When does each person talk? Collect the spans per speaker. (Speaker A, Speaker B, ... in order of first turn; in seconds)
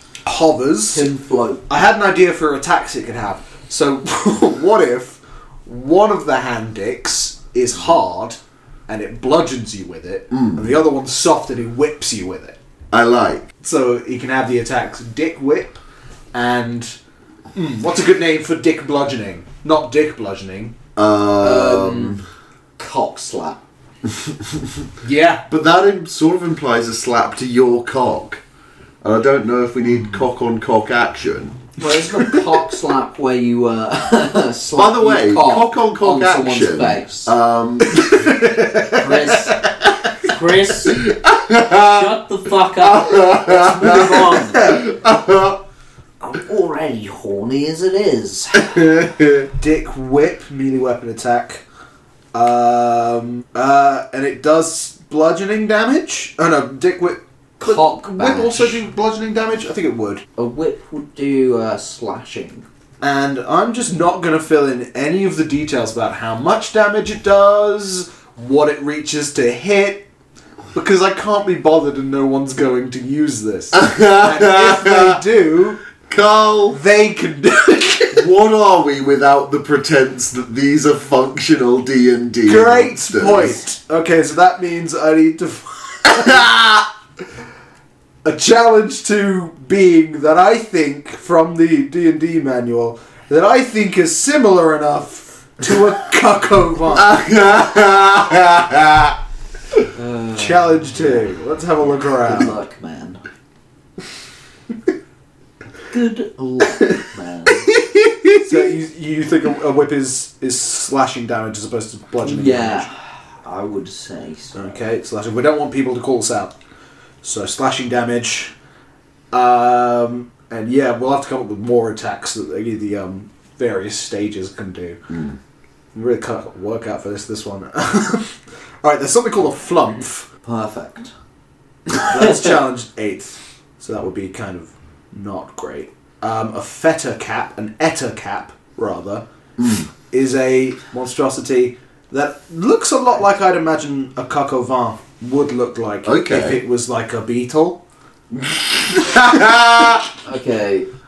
Speaker A: 0.2-1.1, 1.7-12.6, 13.6-15.8, 16.3-16.9, 17.5-20.7, 25.0-25.4, 29.9-30.2, 37.9-39.6, 49.6-51.6, 52.3-60.2, 63.0-70.0, 70.7-75.8, 76.7-78.3, 82.5-86.7, 88.2-97.1, 100.3-102.6, 108.3-112.9, 114.5-116.5, 117.2-118.5, 119.3-125.0, 125.9-130.3, 132.0-139.2, 140.1-147.8
Speaker B: 0.9-1.6, 21.4-22.1, 22.8-23.6, 31.8-37.3, 38.8-39.6, 40.2-41.1, 41.8-44.8, 46.2-48.9, 57.6-58.8, 60.4-62.6, 99.9-101.3, 101.9-103.2, 105.9-107.7, 112.2-112.9, 113.4-114.8, 130.4-131.1, 150.2-150.9
Speaker C: 10.3-10.6, 12.9-13.5, 20.9-22.2, 24.1-24.9, 25.5-28.4, 29.0-31.6, 34.7-38.3, 40.9-42.1, 42.8-45.6, 48.6-49.5, 73.7-75.2, 76.1-76.8, 78.1-83.6, 86.1-86.8, 96.9-99.2, 125.1-125.4, 139.6-139.9, 146.0-146.6, 148.3-150.1